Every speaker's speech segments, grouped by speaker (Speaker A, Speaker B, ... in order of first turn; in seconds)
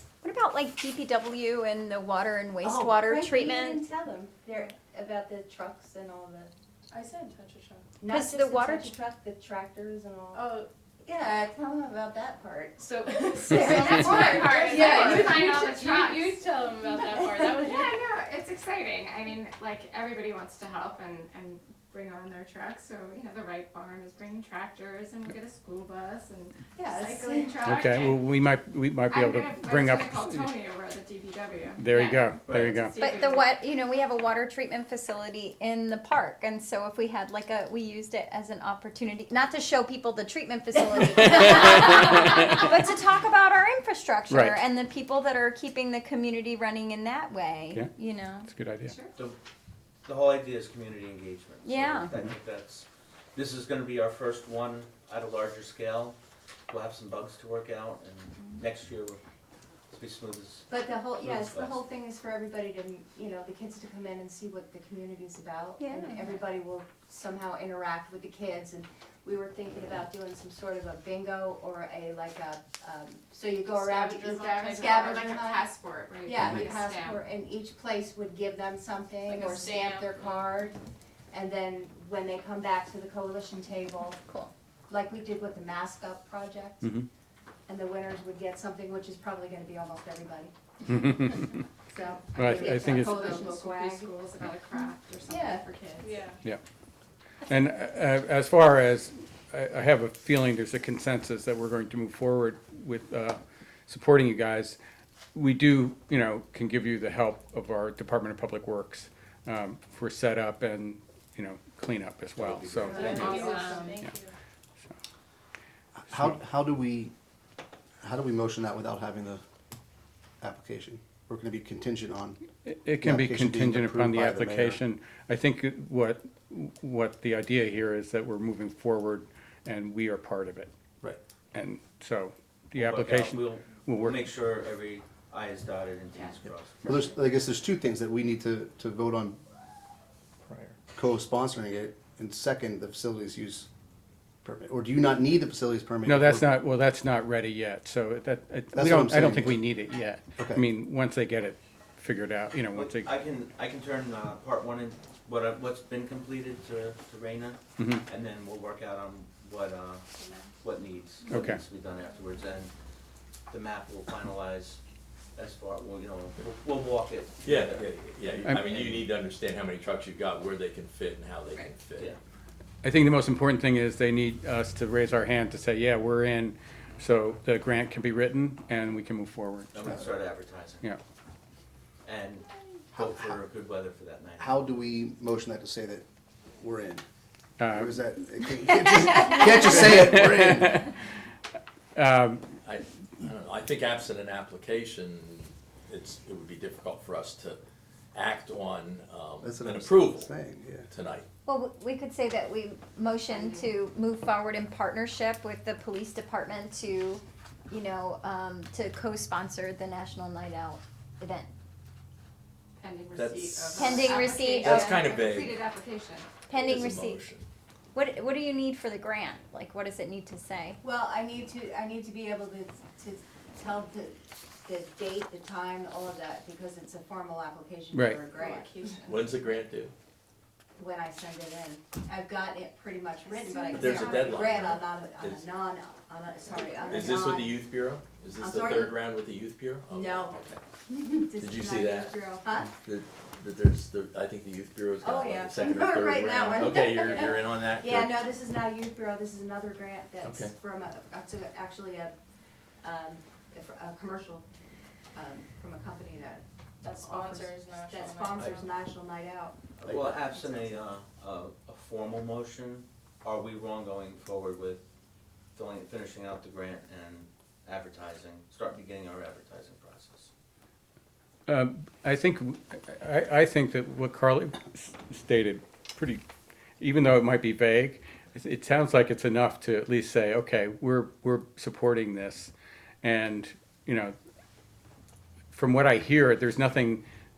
Speaker A: 0.2-3.8, 8.1-8.9, 32.9-48.5, 51.6-52.2, 65.8-66.4, 84.2-84.5, 201.4-211.5, 213.8-214.9, 216.5-217.2, 217.9-220.8
Speaker B: 2.6-6.5, 8.0-10.5, 11.0-16.4, 16.9-17.9, 26.7-27.6, 60.7-75.7, 76.2-80.8, 81.3-84.2, 84.9-86.9, 87.7-94.1, 95.3-95.6, 112.8-114.0, 220.8-228.9, 230.8-237.6, 238.4-239.0, 239.9-242.7, 245.0-252.1, 252.8-254.4, 255.1-259.6
Speaker C: 6.9-7.8, 10.3-10.7, 12.9-17.9, 73.9-75.2, 79.3-80.0, 96.0-96.4, 112.9-114.3, 256.8-258.5
Speaker D: 13.6-16.5, 17.3-28.2, 29.1-33.5, 73.9-77.2, 79.3-79.5, 92.4-96.3, 113.0-114.0, 203.3-203.6, 212.8-216.3, 228.3-229.3, 233.2-234.0, 236.8-237.0
Speaker E: 27.6-30.5, 31.8-33.0, 42.0-42.7, 44.3-44.6, 48.5-49.0, 90.9-91.2, 92.3-93.3, 97.5-104.8, 105.3-113.2, 122.7-130.7, 131.5-134.2, 146.0-153.1, 157.8-158.1, 161.3-161.6, 172.8-179.8, 187.6-188.0, 189.5-190.9, 191.9-192.5, 227.9-228.2, 271.5-276.2, 276.8-282.5, 283.0-284.1, 285.5-287.0
Speaker F: 32.5-32.9, 50.0-56.2, 56.7-59.2, 59.9-61.8, 112.4-113.4, 132.7-137.1, 152.7-160.1, 160.6-162.7, 163.5-164.8, 165.3-169.1, 179.7-180.9, 182.0-184.7, 259.8-264.8, 265.5-270.3
Speaker G: 116.0-117.1, 118.0-119.4, 120.4-122.4, 123.0-124.8, 136.8-139.4, 140.9-143.7, 144.4-146.6, 148.7-149.7, 150.4-150.7, 182.9-183.4, 184.4-186.1, 186.6-187.0, 187.7-190.9, 199.4-200.9, 259.8-260.1
Speaker H: 140.4-140.8, 167.4-172.1, 192.6-197.6, 198.1-200.3, 200.9-201.3, 213.1-213.9, 214.6-215.7, 216.5-217.5, 229.1-229.9, 233.7-235.5, 236.9-240.6, 241.4-248.3, 250.2-250.5